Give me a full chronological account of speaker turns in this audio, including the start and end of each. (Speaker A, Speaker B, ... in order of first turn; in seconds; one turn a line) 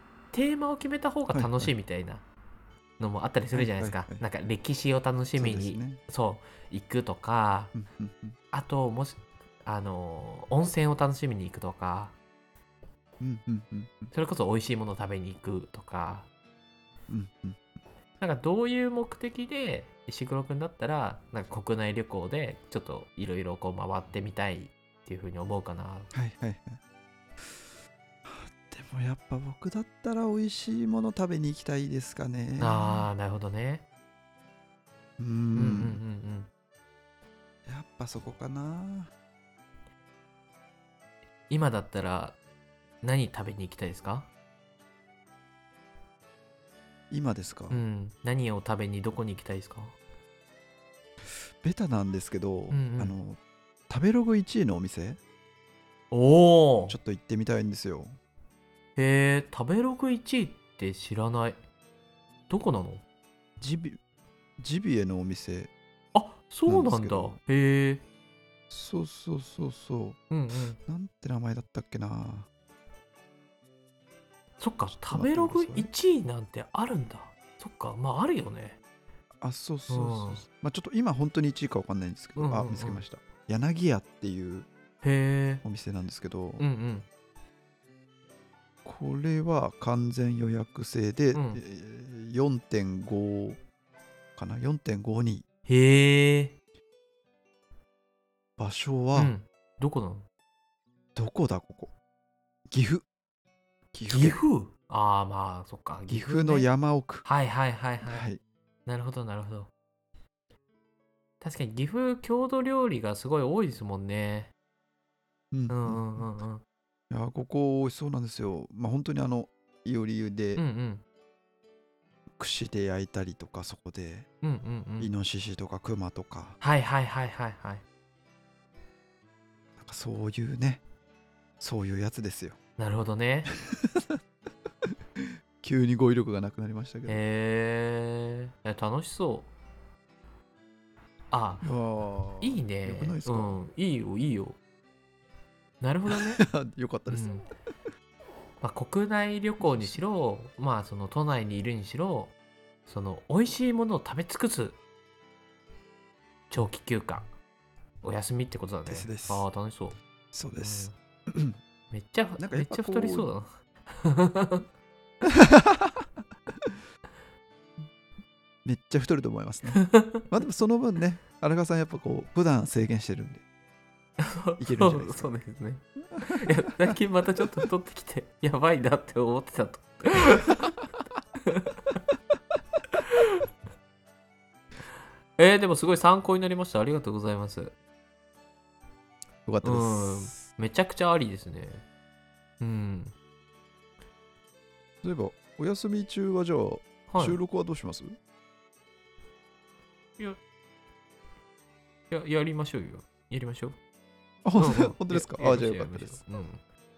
Speaker A: 0.3-2.2
Speaker B: 1.3-1.7
Speaker A: 3.0-7.7
Speaker B: 3.5-4.2
Speaker B: 5.3-6.0
Speaker B: 7.7-8.3
Speaker A: 8.5-12.1
Speaker B: 13.2-14.1
Speaker A: 14.1-16.3
Speaker B: 17.1-17.7
Speaker A: 18.2-26.1
Speaker B: 26.1-26.8
Speaker B: 28.2-33.1
Speaker A: 32.6-33.8
Speaker B: 35.2-36.0
Speaker A: 35.5-36.5
Speaker B: 37.6-39.1
Speaker A: 41.5-42.4
Speaker A: 43.0-44.3
Speaker B: 47.1-47.8
Speaker A: 47.7-49.9
Speaker B: 51.6-55.2
Speaker A: 52.7-53.1
Speaker A: 56.1-57.0
Speaker B: 56.9-58.2
Speaker A: 59.0-61.6
Speaker A: 62.5-63.0
Speaker B: 63.6-64.0
Speaker B: 64.6-65.7
Speaker A: 66.1-68.0
Speaker B: 66.7-67.4
Speaker B: 68.7-70.2
Speaker A: 70.3-70.8
Speaker B: 70.8-72.5
Speaker A: 74.6-78.8
Speaker B: 74.9-75.9
Speaker B: 79.4-84.7
Speaker A: 79.9-80.4
Speaker A: 82.3-83.0
Speaker A: 85.0-85.6
Speaker B: 85.6-86.6
Speaker A: 86.6-87.0
Speaker B: 88.8-93.6
Speaker A: 91.3-91.6
Speaker B: 94.3-95.4
Speaker A: 95.7-96.5
Speaker B: 98.6-99.3
Speaker A: 99.1-100.2
Speaker B: 101.1-101.9
Speaker B: 102.7-103.0
Speaker B: 103.9-104.4
Speaker A: 104.1-106.7
Speaker B: 106.1-107.2
Speaker A: 107.2-108.3
Speaker B: 108.0-108.4
Speaker A: 108.8-109.7
Speaker A: 111.4-114.5
Speaker B: 115.5-116.3
Speaker A: 115.7-116.6
Speaker B: 117.1-120.6
Speaker A: 120.5-121.0
Speaker B: 122.4-124.3
Speaker A: 124.4-125.1
Speaker B: 125.0-126.6
Speaker A: 126.6-127.8
Speaker B: 129.8-130.8
Speaker B: 131.6-132.6
Speaker A: 132.8-133.5
Speaker B: 133.6-134.2
Speaker B: 135.2-137.2
Speaker A: 137.1-139.5
Speaker A: 141.3-141.7
Speaker B: 141.6-143.6
Speaker A: 142.4-144.6
Speaker A: 145.8-146.4
Speaker B: 146.1-147.4
Speaker A: 147.1-147.5
Speaker A: 148.6-152.3
Speaker B: 149.6-150.0
Speaker A: 152.8-154.8
Speaker A: 156.5-157.3
Speaker A: 158.0-160.0
Speaker B: 158.8-159.4
Speaker B: 160.3-161.6
Speaker A: 160.6-160.9
Speaker A: 161.9-164.6
Speaker B: 162.4-163.3
Speaker B: 165.3-166.0
Speaker B: 168.6-173.4
Speaker A: 169.7-170.2
Speaker A: 174.2-180.7
Speaker B: 174.6-175.3
Speaker B: 176.2-176.9
Speaker A: 183.0-183.4
Speaker A: 185.4-187.7
Speaker B: 189.4-190.4
Speaker A: 189.6-191.8
Speaker A: 192.6-193.1
Speaker B: 195.0-198.2
Speaker A: 197.1-197.4
Speaker A: 202.1-203.8
Speaker B: 204.4-206.2
Speaker A: 204.6-206.6